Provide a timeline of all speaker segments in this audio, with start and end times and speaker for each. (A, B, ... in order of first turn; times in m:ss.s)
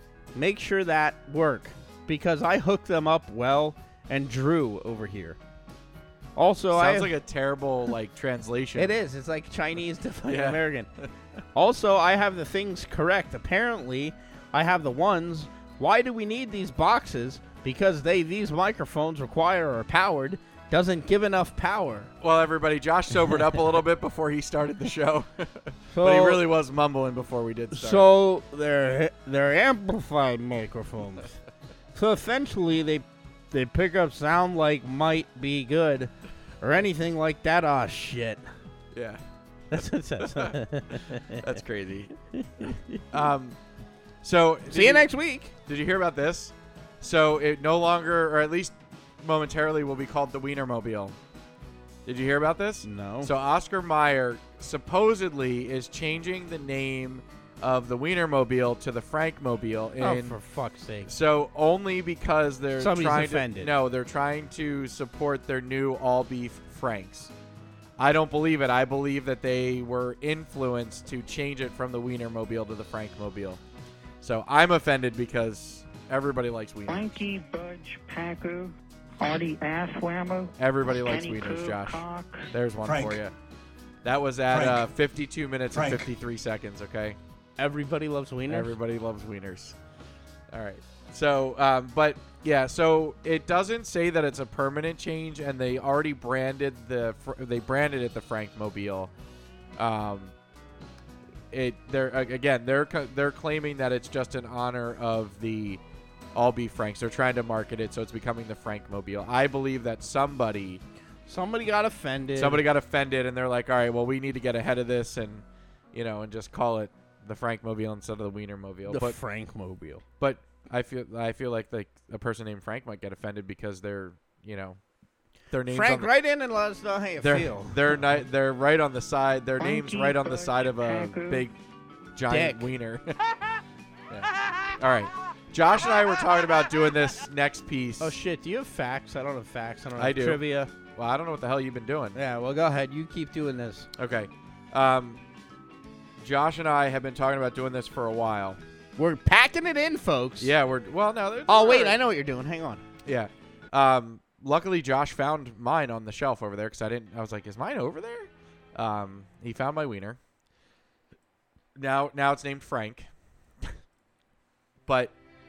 0:00.4-0:05.4 A
0:06.4-0:07.2 A
0:06.7-0:09.0 B
0:08.8-0:10.9 A
0:10.3-0:11.1 B
0:11.6-0:22.1 A
0:22.2-0:28.1 B
0:25.9-0:26.4 A
0:27.7-0:31.4 A
0:32.0-0:38.4 A
0:38.9-0:39.2 B
0:39.7-0:41.5 A
0:40.2-0:42.1 B
0:42.3-0:43.1 A
0:43.1-0:43.6 B
0:44.2-0:51.2 B
0:44.7-0:45.5 A
0:52.1-1:00.4 B
0:52.8-0:53.3 A
1:00.0-1:01.1 A
1:01.1-1:07.3 B
1:02.8-1:03.7 A
1:08.0-1:13.6 B
1:14.2-1:17.1 B
1:16.9-1:22.5 C
1:20.6-1:23.3 B
1:24.0-1:27.2 B
1:27.6-1:28.7 A
1:28.5-1:29.8 B
1:30.5-1:39.1 B
1:39.8-1:40.3 B
1:41.5-1:45.8 B
1:46.3-1:50.8 B
1:51.3-1:52.7 A
1:52.4-1:59.2 B
1:58.9-2:00.0 A
2:00.2-2:04.8 B
2:05.5-2:06.1 B
2:05.7-2:07.8 A
2:07.2-2:11.6 B
2:09.6-2:11.5 C
2:12.2-2:18.2 B
2:12.3-2:12.7 A
2:18.0-2:20.7 A
2:20.0-2:22.2 B
2:22.2-2:23.9 A
2:24.0-2:25.2 B
2:26.2-2:28.6 B
2:29.0-2:30.5 A
2:30.4-2:32.0 B
2:31.5-2:32.8 A
2:33.0-2:40.2 B
2:41.8-2:43.1 B
2:44.9-2:45.1 B